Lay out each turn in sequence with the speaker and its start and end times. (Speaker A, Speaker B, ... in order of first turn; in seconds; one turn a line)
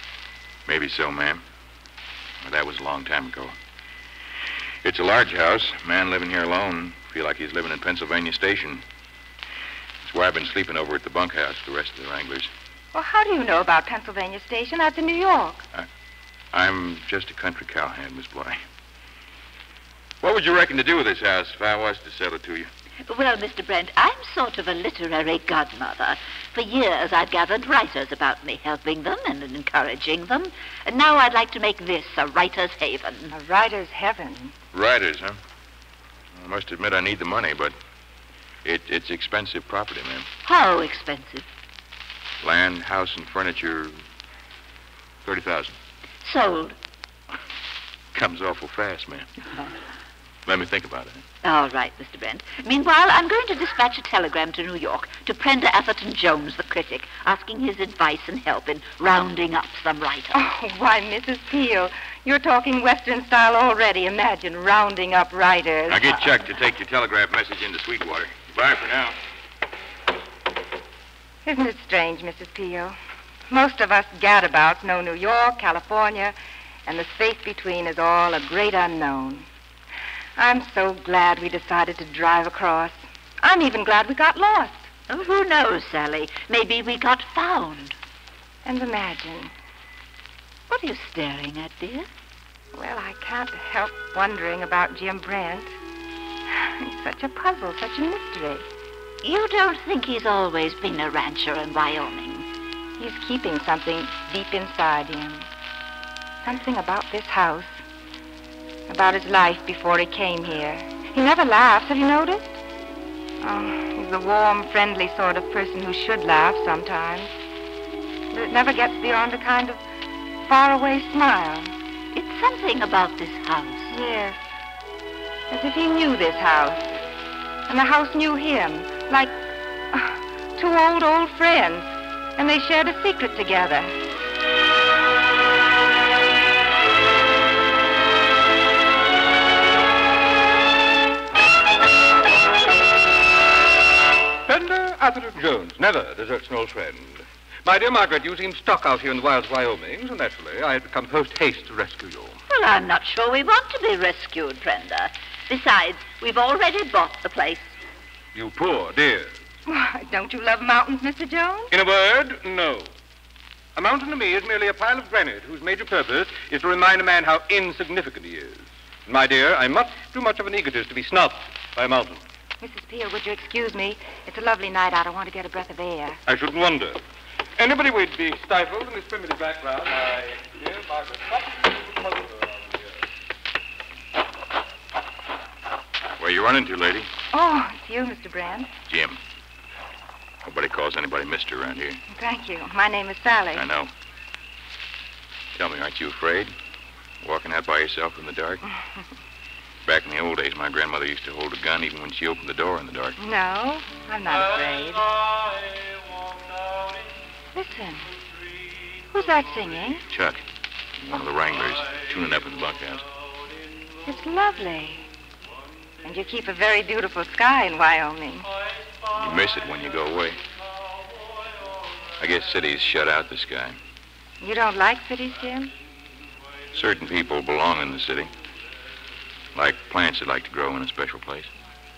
Speaker A: 0.7-1.4
Speaker A: 2.4-3.5
Speaker A: 4.8-8.8
Speaker A: 10.0-12.5
Speaker B: 12.9-15.7
Speaker A: 16.5-18.6
Speaker A: 20.2-22.7
Speaker C: 23.1-33.3
Speaker B: 33.3-34.5
Speaker A: 34.7-35.4
Speaker A: 36.4-37.7
Speaker A: 38.6-40.3
Speaker C: 40.5-41.5
Speaker A: 42.4-44.0
Speaker A: 45.2-45.8
Speaker C: 46.2-46.8
Speaker A: 48.1-49.3
Speaker A: 50.5-51.2
Speaker C: 51.4-60.4
Speaker B: 60.3-66.1
Speaker A: 65.9-69.2
Speaker B: 71.5-73.0
Speaker B: 73.5-76.3
Speaker B: 76.9-79.5
Speaker B: 80.4-84.9
Speaker C: 85.1-88.0
Speaker B: 88.7-89.5
Speaker C: 90.7-92.1
Speaker B: 92.7-95.7
Speaker B: 96.5-98.7
Speaker C: 99.2-102.5
Speaker B: 103.0-105.5
Speaker B: 106.4-107.8
Speaker B: 108.9-112.6
Speaker B: 113.4-117.3
Speaker B: 118.3-119.8
Speaker B: 120.5-121.7
Speaker C: 122.1-123.9
Speaker B: 123.9-124.4
Speaker B: 125.5-126.9
Speaker B: 127.7-129.3
Speaker B: 129.9-134.0
Speaker D: 144.5-152.4
Speaker C: 152.5-157.7
Speaker D: 158.3-159.3
Speaker B: 159.7-161.7
Speaker D: 161.7-162.9
Speaker D: 163.8-172.2
Speaker B: 172.6-176.2
Speaker D: 176.3-177.0
Speaker D: 177.6-183.0
Speaker A: 186.2-187.1
Speaker B: 187.3-188.7
Speaker A: 188.9-189.2
Speaker A: 190.4-192.0
Speaker B: 192.1-193.7
Speaker A: 193.6-193.9
Speaker A: 195.6-196.5
Speaker A: 197.2-198.6
Speaker A: 199.8-203.2
Speaker B: 203.2-205.1
Speaker B: 207.5-208.1
Speaker B: 209.1-210.1
Speaker A: 210.1-210.4
Speaker A: 211.0-213.1
Speaker B: 214.1-215.1
Speaker B: 216.0-218.5
Speaker A: 219.1-220.4
Speaker A: 222.2-223.8
Speaker B: 224.4-225.7
Speaker A: 226.7-228.3
Speaker A: 229.6-231.5